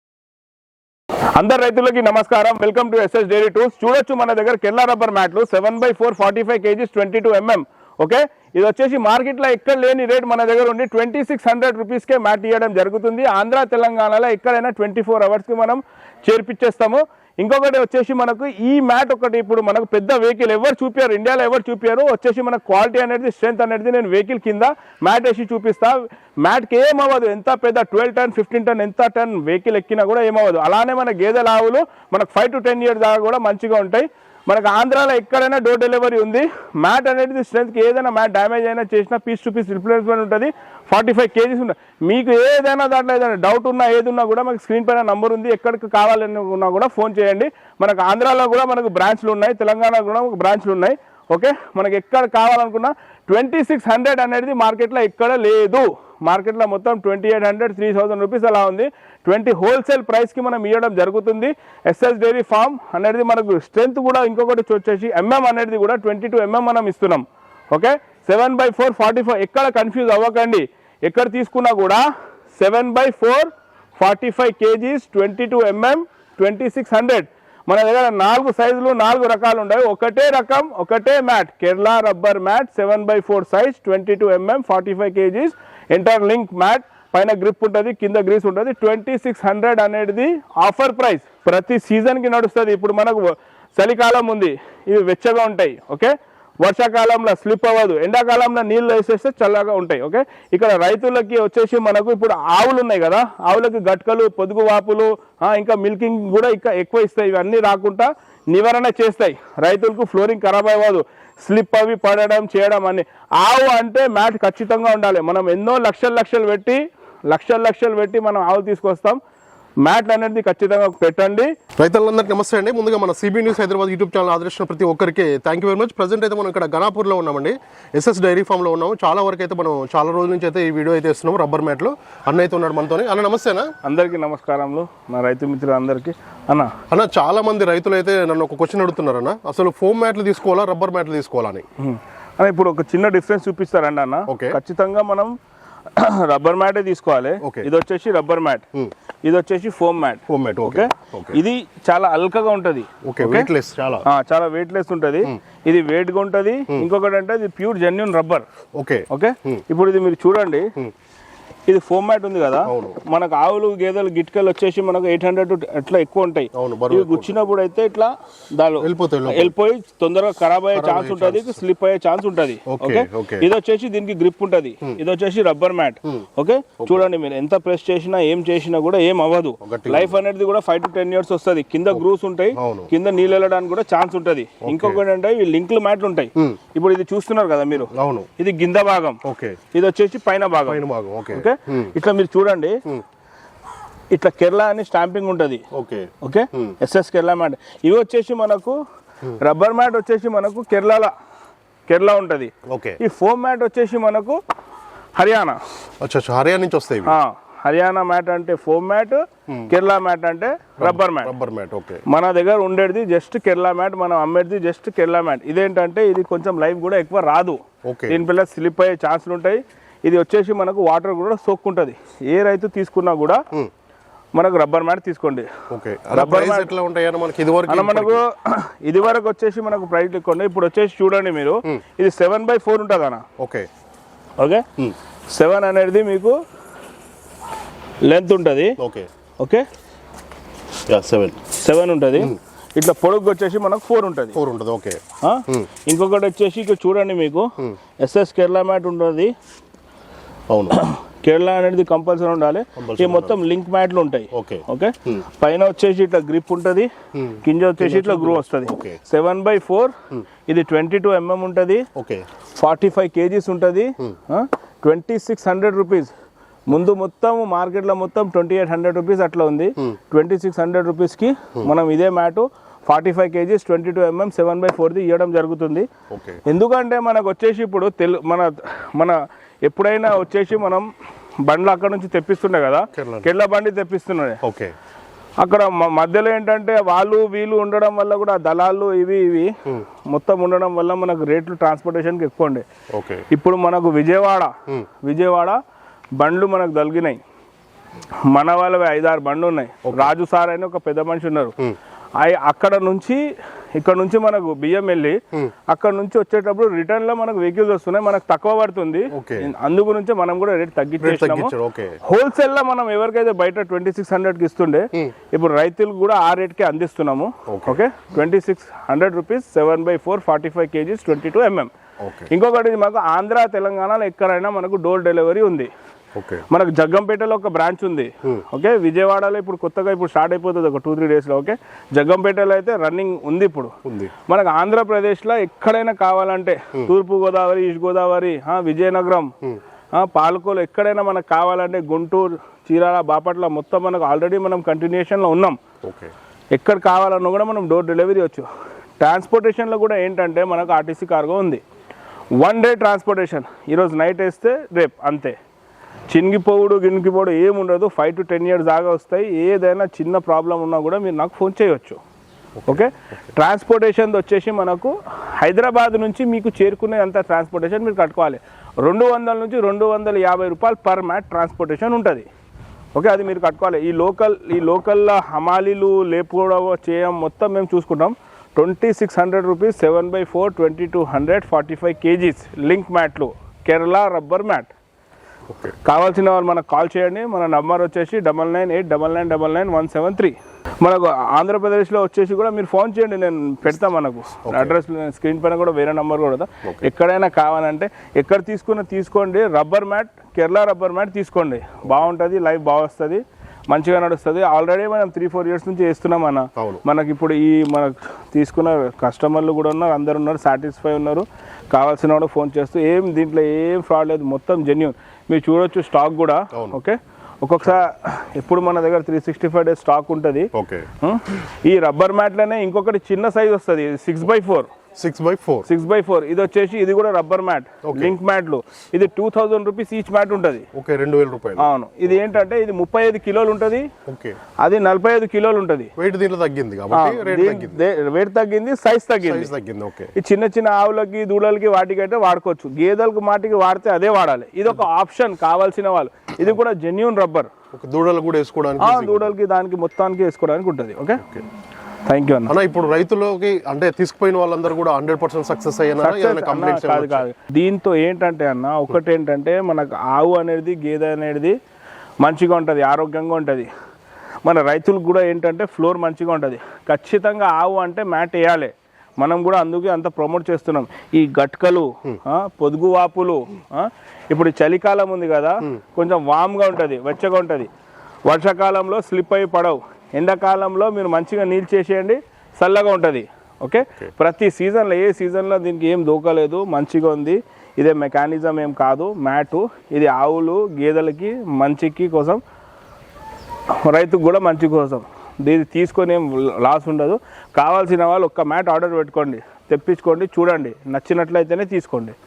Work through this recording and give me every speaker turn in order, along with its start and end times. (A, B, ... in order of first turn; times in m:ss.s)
0:01.4-1:12.0 A
1:12.6-1:59.2 A
1:59.8-2:01.5 A
2:01.8-2:13.7 B
2:13.8-2:16.7 A
2:16.9-2:21.6 B
2:21.8-2:25.4 A
2:24.3-2:24.6 B
2:26.0-2:28.6 A
2:27.4-2:27.7 B
2:29.2-2:33.5 A
2:30.3-2:31.4 B
2:33.0-2:34.0 B
2:34.1-2:38.5 A
2:38.8-2:39.6 B
2:39.1-2:40.7 A
2:41.7-3:09.2 A
2:42.7-2:43.0 B
2:46.5-2:47.4 B
2:48.8-2:49.5 B
2:50.7-2:51.6 B
2:52.7-2:53.5 B
2:59.6-3:00.2 B
3:02.6-3:02.9 B
3:04.6-3:05.0 B
3:07.9-3:08.3 B
3:09.2-3:09.6 B
3:09.7-3:12.8 A
3:10.6-3:11.9 B
3:14.1-3:15.6 A
3:15.7-3:16.8 B
3:16.2-3:18.8 A
3:19.4-3:21.1 A
3:21.9-3:24.4 A
3:22.7-3:23.0 B
3:25.2-3:25.6 A
3:26.0-3:27.2 B
3:27.1-3:31.3 A
3:30.8-3:32.0 B
3:32.1-3:43.4 A
3:37.8-3:38.2 B
3:44.3-3:45.5 A
3:45.7-3:48.2 B
3:46.1-3:46.7 A
3:47.7-3:53.2 A
3:53.4-3:53.7 B
3:54.4-3:54.6 A
3:55.3-3:56.4 A
3:58.0-3:58.8 A
3:58.8-3:59.1 B
3:59.4-3:59.6 A
4:00.9-4:01.4 B
4:01.5-4:04.4 A
4:04.3-4:05.7 B
4:05.2-4:09.3 A
4:10.5-4:10.8 B
4:10.7-4:16.9 A
4:12.8-4:13.4 B
4:14.3-4:15.2 B
4:17.1-4:19.0 B
4:17.4-4:20.0 A
4:20.5-4:21.9 A
4:22.0-4:22.3 B
4:22.5-4:26.1 A
4:26.7-4:35.9 A
4:36.1-4:36.4 B
4:36.5-4:40.9 A
4:41.4-4:44.4 A
4:42.9-4:43.3 B
4:44.4-4:44.7 B
4:45.4-4:49.5 A
4:50.1-4:52.6 A
4:52.9-4:53.2 B
4:53.3-4:55.6 A
4:56.2-4:57.2 A
4:58.3-5:01.6 A
4:59.9-5:00.1 B
5:02.2-5:03.2 A
5:03.8-5:11.5 A
5:09.1-5:09.5 B
5:11.0-5:12.0 B
5:12.0-5:21.7 A
5:17.5-5:17.8 B
5:22.0-5:22.3 B
5:22.3-5:25.7 A
5:26.2-5:26.4 B
5:26.5-5:33.7 A
5:33.8-5:34.1 B
5:34.3-5:39.3 A
5:40.0-5:45.6 A
5:45.8-5:46.1 B
5:46.5-5:48.5 A
5:49.0-5:51.6 A
5:52.4-5:55.4 A
5:56.1-6:02.0 A
6:02.6-6:02.9 B
6:02.7-6:12.3 A
6:13.0-6:24.7 A
6:25.5-6:25.8 B
6:25.8-7:00.5 A
6:34.5-6:34.8 B
6:46.6-6:46.8 B
6:56.5-6:56.8 B
7:00.5-7:00.9 B
7:01.0-7:04.7 A
7:05.0-7:05.7 B
7:05.7-7:10.7 A
7:07.8-7:08.2 B
7:10.7-7:11.7 B
7:11.6-7:13.9 A
7:14.1-7:14.4 B
7:14.6-7:15.9 A
7:16.0-7:17.8 B
7:16.9-7:19.5 A
7:19.2-7:20.1 B
7:20.2-7:27.5 A
7:27.7-7:29.4 B
7:28.8-7:31.2 A
7:32.1-7:32.5 A
7:32.5-7:37.3 B
7:36.0-7:41.6 A
7:42.2-7:43.7 A
7:44.4-7:57.7 A
7:58.3-8:12.4 A
8:13.8-8:22.2 A